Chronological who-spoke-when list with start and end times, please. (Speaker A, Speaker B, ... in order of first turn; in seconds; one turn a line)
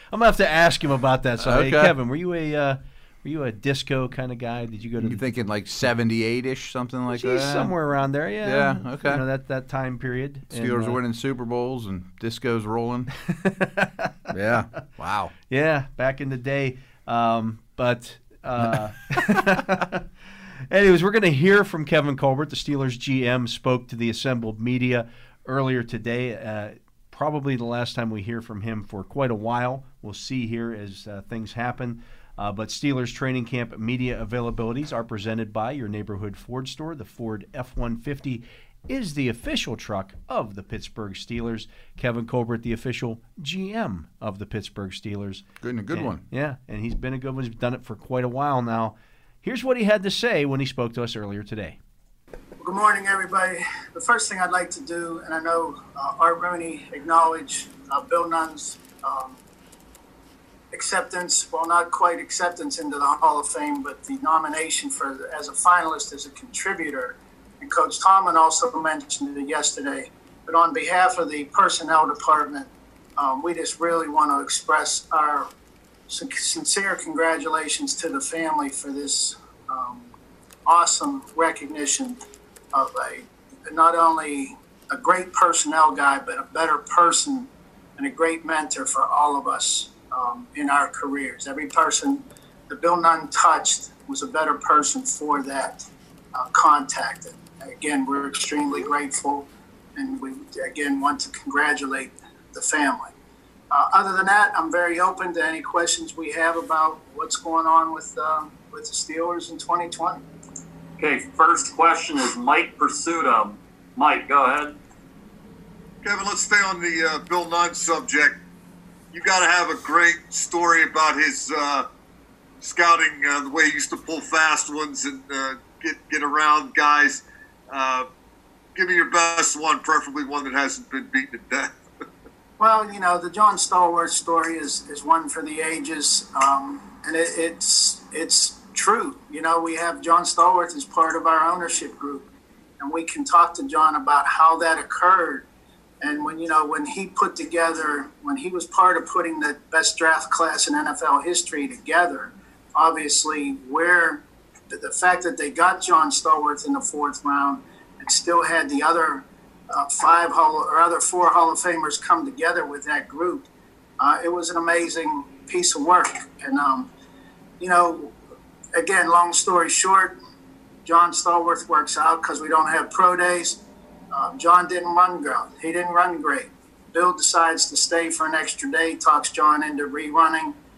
Speaker A: 0.1-5.2
Speaker B: 1.4-1.9
Speaker B: 5.0-7.7
Speaker A: 7.1-11.0
Speaker B: 8.4-9.2
Speaker B: 10.5-13.1
Speaker A: 13.3-14.1
Speaker B: 14.3-15.3
Speaker A: 15.5-20.0
Speaker A: 20.7-51.8
Speaker B: 45.6-46.2
Speaker C: 52.6-59.4
Speaker C: 60.7-75.5
Speaker C: 76.1-80.1
Speaker C: 80.7-82.2
Speaker C: 82.7-103.1
Speaker C: 103.7-110.2
Speaker D: 111.0-114.8
Speaker E: 116.0-118.4
Speaker E: 119.1-121.8
Speaker E: 122.6-128.1
Speaker E: 128.8-131.7
Speaker C: 132.6-142.3
Speaker C: 142.8-145.4
Speaker C: 146.0-163.5
Speaker C: 164.0-166.9
Speaker C: 167.6-168.1
Speaker C: 168.7-170.2
Speaker C: 170.8-173.6
Speaker C: 174.1-180.6